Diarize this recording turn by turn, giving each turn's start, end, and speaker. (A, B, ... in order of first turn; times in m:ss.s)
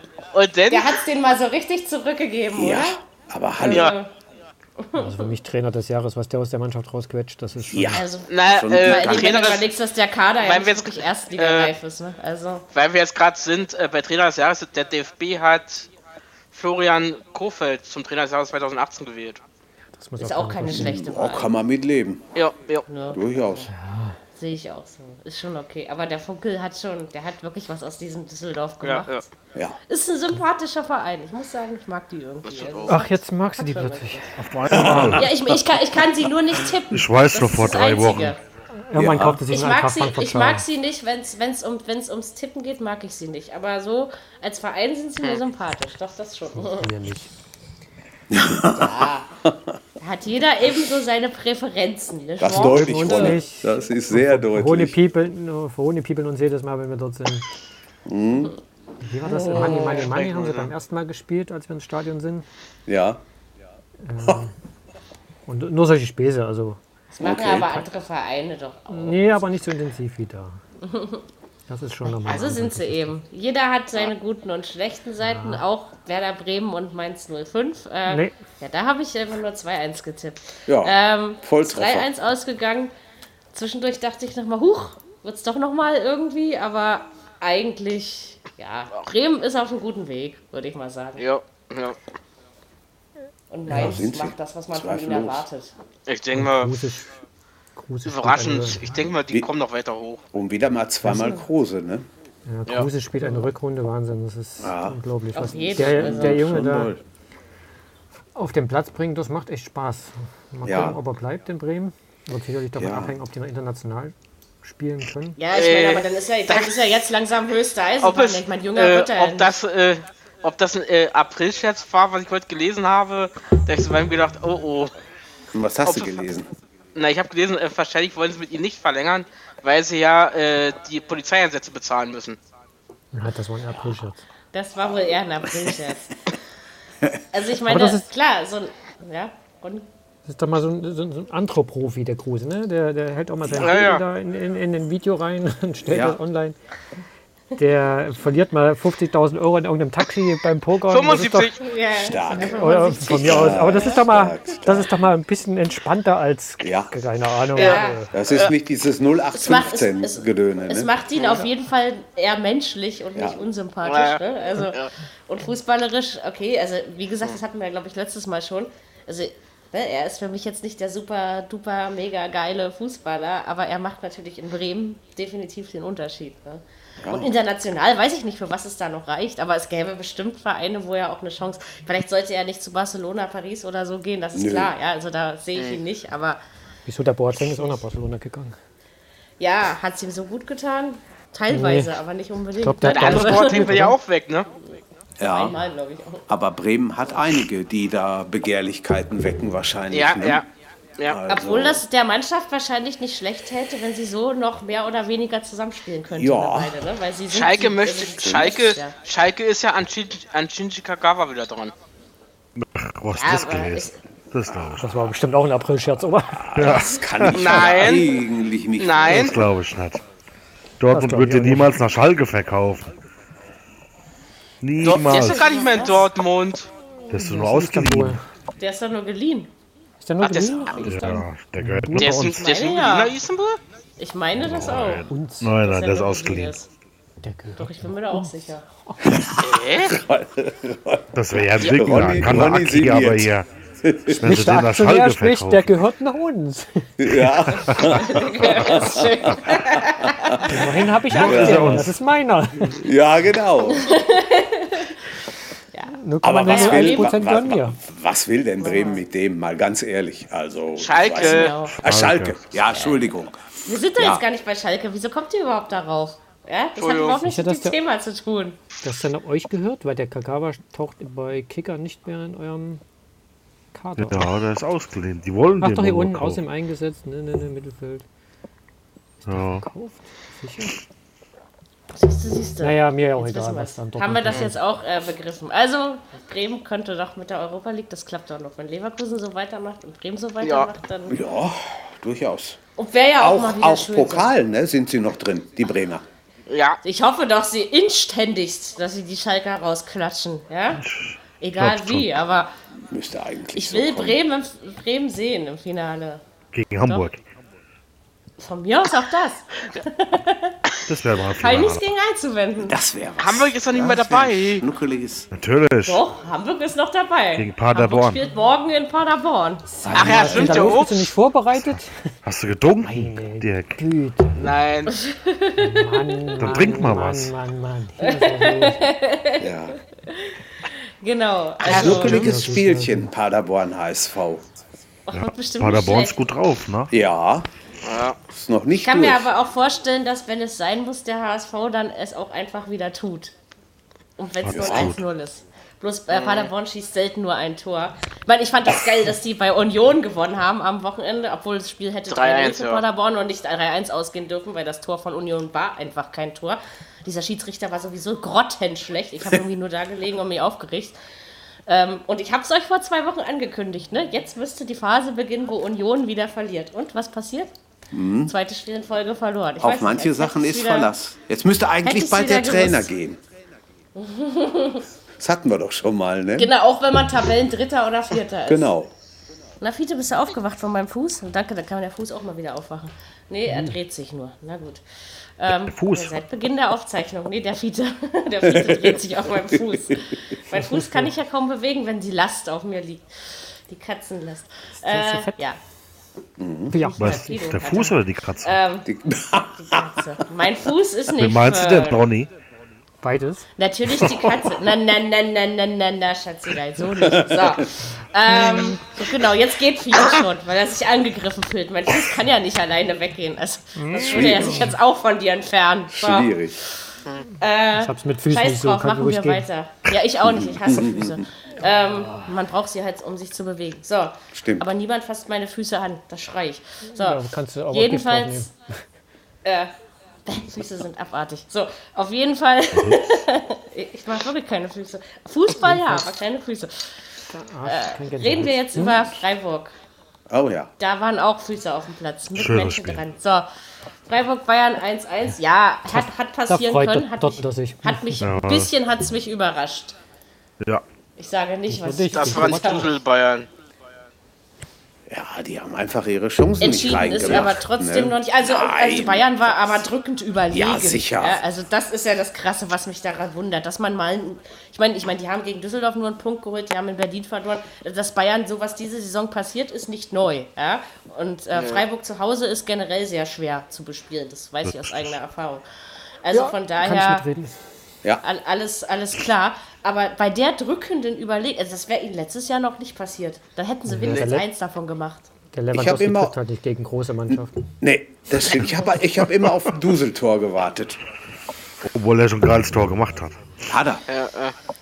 0:00.3-0:01.0 A
0:00.7-0:03.0 B
0:02.5-0:03.9 C
0:03.6-0:04.1 B
0:03.7-0:04.0 A
0:04.8-0:05.3 B
0:04.9-0:08.0 D
0:07.7-0:09.5 C
0:07.9-0:12.6 B
0:08.3-0:09.7 A
0:10.4-0:11.7 A
0:12.7-0:15.9 A
0:16.5-0:19.4 A
0:20.0-0:21.0 D
0:20.2-0:21.5 B
0:20.7-0:22.2 C
0:22.3-0:22.8 A
0:22.9-0:23.7 B
0:23.1-0:23.7 C
0:23.7-0:24.2 D
0:24.4-0:29.2 B
0:28.8-0:29.2 A
0:29.9-0:34.3 B
0:32.4-0:33.0 A
0:32.9-0:35.3 D
0:34.5-0:35.3 E
0:34.7-0:35.3 C
0:35.0-0:38.4 B
0:36.9-0:38.3 E
0:38.9-0:40.6 D
0:38.9-0:39.4 C
0:39.5-0:46.9 B
0:46.6-0:47.3 D
0:48.3-0:49.7 C
0:48.7-0:49.3 B
0:50.0-0:53.4 B
0:52.4-0:55.0 C
0:52.4-0:57.4 D
0:58.0-0:58.5 C
0:59.0-1:02.4 D
0:59.4-1:00.1 B
0:59.5-1:00.7 A
1:02.9-1:03.2 C
1:04.0-1:04.5 D
1:05.5-1:06.8 D
1:07.1-1:09.3 B
1:07.2-1:07.8 C
1:08.9-1:10.6 D
1:10.8-1:11.2 B
1:11.7-1:13.1 D
1:12.0-1:22.9 B
1:15.2-1:15.6 D
1:18.1-1:18.4 D
1:20.7-1:22.1 C
1:23.5-1:31.2 B
1:31.2-1:32.0 A
1:33.5-1:35.7 B
1:33.7-1:34.0 D
1:33.7-1:35.4 C
1:36.1-1:36.7 A
1:36.3-1:37.1 D
1:37.8-1:39.0 D
1:38.0-1:40.2 A
1:40.3-1:42.0 C
1:42.5-1:46.9 D
1:44.6-1:45.0 C
1:45.3-1:46.4 B
1:45.7-1:47.0 C
1:48.3-1:55.4 D
1:50.6-1:51.0 C
1:52.8-1:53.1 C
1:55.4-1:59.5 B
1:55.5-1:56.8 A
1:58.0-2:04.9 A
2:05.5-2:06.5 C
2:05.8-2:06.2 A
2:06.9-2:12.4 A
2:13.1-2:14.2 D
2:14.5-2:16.1 B
2:17.3-2:19.9 B
2:17.6-2:18.1 D
2:20.2-2:26.6 D
2:23.4-2:23.9 C
2:23.6-2:24.0 A
2:25.9-2:26.2 C
2:27.6-2:31.6 D
2:30.9-2:31.6 A
2:31.6-2:34.0 B
2:31.9-2:34.9 C
2:32.3-2:38.1 D
2:36.6-2:36.9 C
2:37.5-2:38.0 B
2:37.6-2:38.5 A
2:38.1-2:40.9 C
2:39.3-3:06.4 B
2:41.1-2:41.4 A
2:43.1-2:43.4 C
2:43.8-2:44.9 A
2:57.0-2:57.3 C
3:04.3-3:04.7 C
3:06.8-3:08.6 D
3:07.4-3:07.8 B
3:09.4-3:13.8 B
3:11.5-3:11.9 D
3:12.6-3:14.0 D
3:12.8-3:14.5 A
3:15.2-3:15.6 C
3:15.2-3:16.2 B
3:16.3-3:20.4 C
3:19.9-3:20.4 A
3:21.0-3:21.8 C
3:21.3-3:28.9 B
3:26.1-3:26.8 C
3:27.3-3:31.7 A
3:28.2-3:28.5 C
3:32.6-3:34.9 E
3:33.1-3:34.0 B
3:34.8-3:36.7 D
3:36.3-3:39.5 C
3:36.5-3:37.5 E
3:37.3-3:38.2 A
3:38.8-3:39.4 A
3:39.0-3:40.0 E
3:40.8-3:42.9 E
3:40.9-3:41.7 D
3:44.6-3:45.5 E
3:44.8-3:46.7 A
3:45.1-3:46.1 B
3:47.1-3:48.2 D
3:47.1-3:48.2 E
3:48.6-3:49.5 B
3:50.0-3:52.3 D
3:50.2-3:50.8 A
3:50.8-3:52.4 E
3:52.0-3:53.6 A
3:52.2-3:53.1 B
3:54.0-3:56.7 B
3:54.4-3:56.5 E
3:54.5-3:55.5 D
3:57.2-3:58.3 D
3:57.6-3:58.6 B
3:59.0-4:04.5 C
3:59.4-4:00.0 A
4:01.1-4:03.4 E
4:04.1-4:07.4 D
4:04.1-4:05.8 E
4:07.0-4:10.5 C
4:07.6-4:10.7 B
4:07.7-4:08.0 E
4:10.4-4:12.8 D
4:11.1-4:11.9 E
4:11.1-4:11.8 C
4:12.7-4:13.9 C
4:13.6-4:15.0 B
4:15.9-4:17.8 D
4:16.2-4:24.2 C
4:16.5-4:17.2 B
4:18.6-4:19.0 B
4:20.8-4:21.6 A
4:21.1-4:21.8 B
4:21.8-4:22.4 E
4:22.7-4:23.0 B
4:23.6-4:28.6 B
4:26.8-4:27.2 A
4:27.2-4:27.8 D
4:28.8-4:32.8 D
4:33.7-4:34.3 D
4:34.0-4:36.4 E
4:35.6-4:38.0 D
4:39.2-4:40.8 D
4:39.3-4:39.6 E
4:41.9-4:51.2 B
4:42.6-4:44.6 D
4:50.4-4:50.7 A
4:51.1-4:52.6 C
4:52.8-4:54.3 B
4:53.2-4:56.0 C
4:56.5-4:56.8 A
4:56.8-5:00.8 B
5:00.8-5:02.2 E
5:01.4-5:02.5 B
5:02.9-5:04.2 C
5:03.5-5:06.2 B
5:06.5-5:07.2 E
5:08.4-5:10.6 B
5:10.9-5:11.8 E
5:11.3-5:12.8 B
5:12.6-5:15.3 C
5:13.2-5:14.6 A
5:15.3-5:16.0 E
5:15.8-5:20.7 B
5:17.3-5:18.2 E
5:19.7-5:22.1 D
5:19.8-5:20.4 C
5:19.9-5:21.1 A
5:22.2-5:23.8 E
5:22.8-5:24.5 D
5:24.4-5:25.0 A
5:24.9-5:26.2 B
5:25.6-5:28.9 D
5:26.4-5:27.3 E
5:28.0-5:29.5 B
5:29.4-5:29.8 C
5:30.0-5:32.3 B
5:31.7-5:32.3 A
5:31.7-5:34.4 C
5:31.7-5:33.1 D
5:35.1-5:36.3 B
5:35.1-5:37.0 E
5:36.9-5:37.5 C
5:37.8-5:38.2 A
5:38.3-5:39.3 C
5:38.7-5:43.3 B
5:44.2-6:01.0 B
5:44.4-5:45.0 E
5:44.5-5:45.0 C
5:46.1-5:46.5 A
5:52.1-5:52.8 A
6:01.7-6:07.5 B
6:07.9-6:08.3 C
6:08.2-6:10.9 B
6:09.6-6:13.2 C
6:11.8-6:12.9 B
6:14.0-6:14.8 B
6:15.2-6:16.5 C
6:16.4-6:18.7 B
6:18.4-6:18.9 C
6:19.6-6:24.8 B
6:23.5-6:23.7 D
6:25.4-6:35.6 B
6:25.5-6:26.2 E
6:28.4-6:30.1 C
6:30.5-6:31.1 D
6:34.8-6:35.4 D
6:36.4-6:36.7 C
6:36.7-6:37.4 D
6:36.8-6:38.9 B
6:37.0-6:38.6 E
6:38.8-6:40.0 C
6:39.6-6:42.1 B
6:41.1-6:42.3 E
6:43.0-6:43.5 D
6:43.6-6:56.7 B
6:47.0-6:47.6 C
6:48.2-6:48.8 D
6:53.8-6:54.8 D
6:54.0-6:54.7 C
6:55.9-6:56.6 C
6:57.4-7:08.5 B
6:57.7-6:59.4 D
7:00.2-7:01.2 C
7:01.7-7:02.3 D
7:04.3-7:04.7 C
7:06.9-7:08.8 D
7:09.4-7:09.7 B
7:10.2-7:17.0 B
7:12.7-7:13.0 E
7:15.5-7:16.0 D
7:17.3-7:19.0 D
7:17.6-7:19.7 B
7:20.3-7:20.7 C
7:20.8-7:23.5 B
7:22.3-7:23.0 E
7:24.1-7:30.0 B
7:25.9-7:28.3 D
7:28.2-7:28.7 E
7:31.2-7:32.9 B
7:31.7-7:32.9 D
7:32.1-7:33.5 A
7:35.1-7:39.8 C
7:36.6-7:55.6 B
7:40.5-7:41.4 C
7:51.5-7:51.8 A
7:54.6-7:55.2 E
7:56.2-7:57.2 B
7:56.3-7:57.6 D
7:58.2-8:05.3 B
8:03.8-8:04.5 D
8:04.0-8:04.3 A
8:05.5-8:07.6 D
8:05.7-8:06.4 C
8:07.3-8:11.0 C
8:11.8-8:13.6 E
8:13.6-8:14.0 C
8:14.1-8:14.6 A